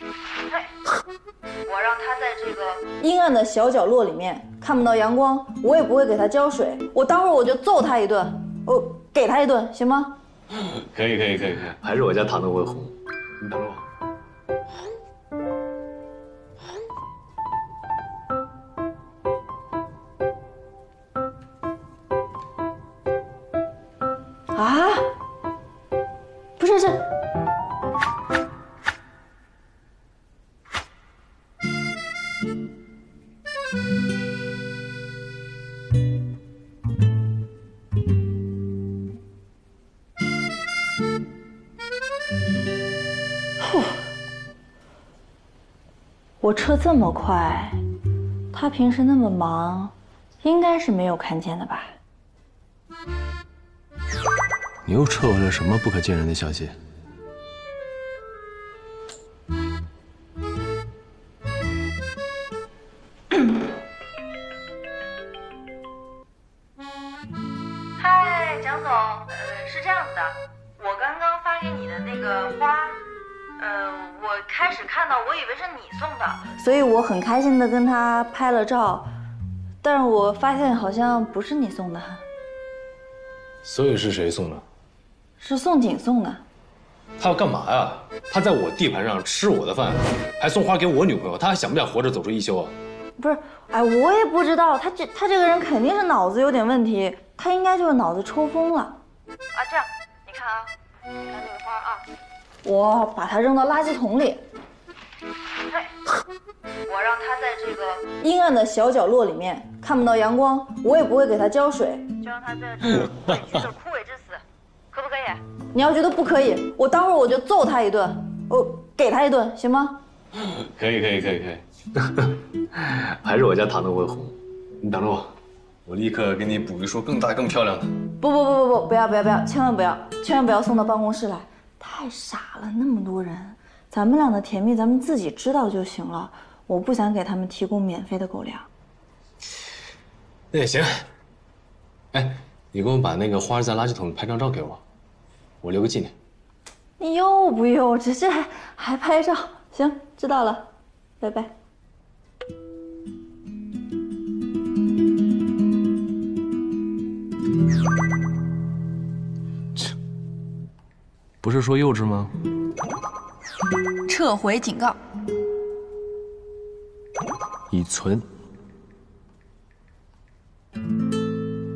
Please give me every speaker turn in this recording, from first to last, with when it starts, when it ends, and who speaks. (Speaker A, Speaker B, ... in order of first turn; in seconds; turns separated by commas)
Speaker A: 1.7-10.2, Speaker B: 10.5-13.8, Speaker A: 24.5-25.1, Speaker A: 26.6-27.1, Speaker A: 43.6-44.0, Speaker A: 46.4-47.8, Speaker A: 48.5-52.0, Speaker B: 54.9-56.8, Speaker A: 68.0-73.0, Speaker A: 73.6-79.1, Speaker A: 79.8-82.2, Speaker B: 83.6-84.7, Speaker A: 85.4-86.4, Speaker B: 87.2-92.7, Speaker A: 93.2-99.0, Speaker A: 99.5-102.0, Speaker A: 102.6-104.4, Speaker A: 106.9-120.0, Speaker B: 120.4-128.0, Speaker A: 128.2-138.7, Speaker B: 140.5-140.9, Speaker B: 142.1-144.8, Speaker B: 145.6-146.1, Speaker A: 147.0-151.5, Speaker B: 161.4-162.3, Speaker A: 164.1-165.0, Speaker B: 167.7-168.3